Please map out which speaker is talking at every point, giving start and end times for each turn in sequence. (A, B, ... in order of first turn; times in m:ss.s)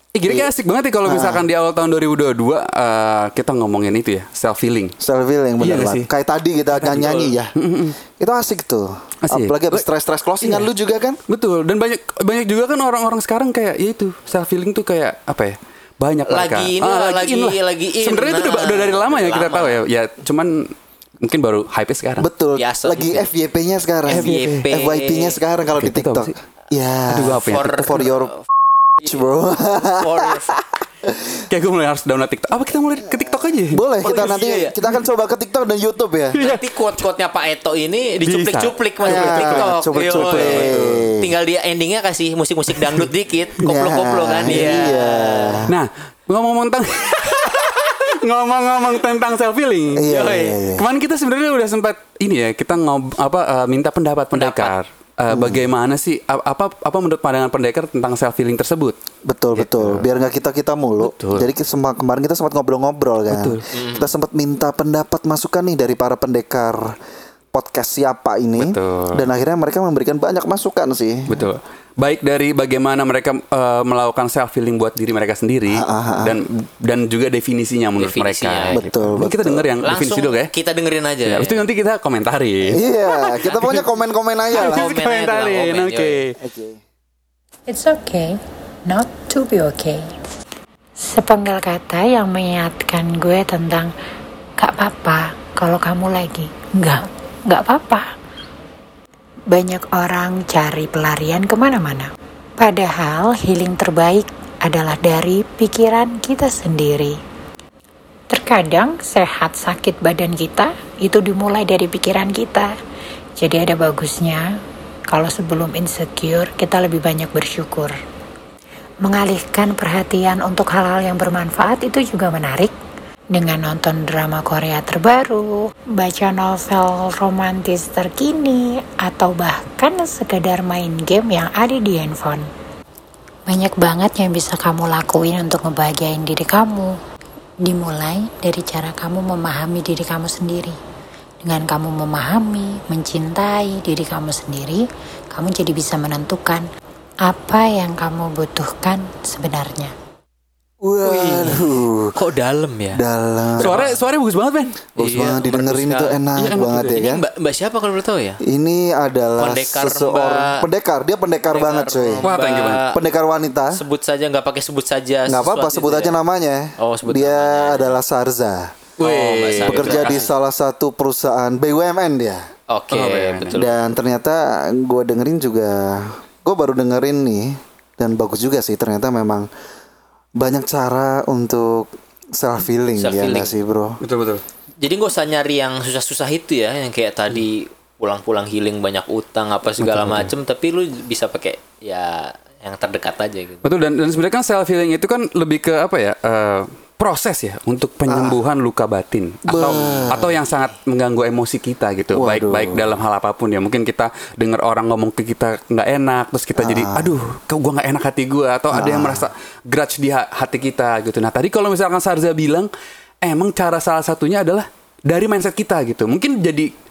0:00.1-0:04.9 A
0:01.0-0:01.4 B
0:05.0-0:07.5 B
0:05.6-0:06.1 A
0:06.8-0:08.0 A
0:08.1-0:11.2 B
0:09.3-0:09.8 A
0:11.3-0:22.2 A
0:16.3-0:19.8 C
0:22.2-0:28.3 B
0:22.6-0:23.3 C
0:24.1-0:24.7 A
0:24.1-0:25.4 C
0:25.8-0:26.3 A
0:27.1-0:28.0 A
0:27.5-0:28.4 C
0:29.0-0:31.4 B
0:30.0-0:30.6 C
0:31.5-0:33.8 A
0:33.7-0:36.4 B
0:34.0-0:34.7 C
0:36.4-0:36.6 A
0:36.4-0:45.7 C
0:38.2-0:41.0 A
0:39.0-0:41.3 B
0:43.6-0:45.7 B
0:44.4-0:44.7 A
0:45.7-0:50.1 A
0:49.9-0:50.9 B
0:50.0-0:50.6 C
0:50.8-0:59.0 A
0:54.3-0:54.7 C
0:55.3-0:55.6 B
0:59.2-1:06.9 B
0:59.6-1:00.0 A
1:01.0-1:01.5 A
1:03.3-1:03.6 A
1:03.7-1:04.1 C
1:07.5-1:11.3 B
1:08.6-1:09.2 A
1:11.3-1:20.5 A
1:15.7-1:16.4 B
1:18.0-1:18.8 C
1:18.7-1:19.7 B
1:19.8-1:21.6 C
1:21.2-1:23.8 A
1:22.7-1:24.9 B
1:24.5-1:26.2 C
1:24.5-1:26.4 A
1:26.4-1:26.8 B
1:27.7-1:30.1 D
1:31.0-1:33.9 D
1:34.6-1:38.1 D
1:39.5-1:47.2 D
1:48.3-1:52.7 D
1:53.4-1:54.5 D
1:55.1-1:57.9 D
1:59.0-2:02.7 D
2:03.3-2:12.5 D
2:13.5-2:16.9 D
2:17.6-2:20.8 D
2:21.4-2:26.6 D
2:27.2-2:29.9 D
2:30.8-2:32.1 B
2:31.0-2:33.0 C
2:32.9-2:33.7 B
2:33.6-2:34.0 C
2:33.6-2:34.8 A
2:35.0-2:38.4 C
2:35.0-2:37.2 B
2:36.4-2:37.0 A
2:38.4-2:42.2 B
2:39.4-2:40.6 C
2:41.5-2:43.0 C
2:42.2-2:42.8 A
2:42.9-2:43.8 B
2:43.7-2:46.1 C
2:45.3-2:48.7 B
2:46.8-2:47.9 C
2:49.0-2:50.2 A
2:49.0-2:50.3 C
2:49.6-2:52.4 B
2:52.7-2:53.7 C
2:52.9-2:53.6 A
2:53.6-2:59.5 B
3:00.4-3:04.0 B
3:03.0-3:03.5 C
3:04.0-3:04.4 A
3:04.8-3:13.6 C
3:09.8-3:10.3 A
3:13.6-3:32.7 A
3:18.1-3:18.4 B
3:19.5-3:20.3 B
3:22.1-3:23.0 B
3:26.6-3:27.1 B
3:28.7-3:29.3 B
3:33.2-3:36.7 A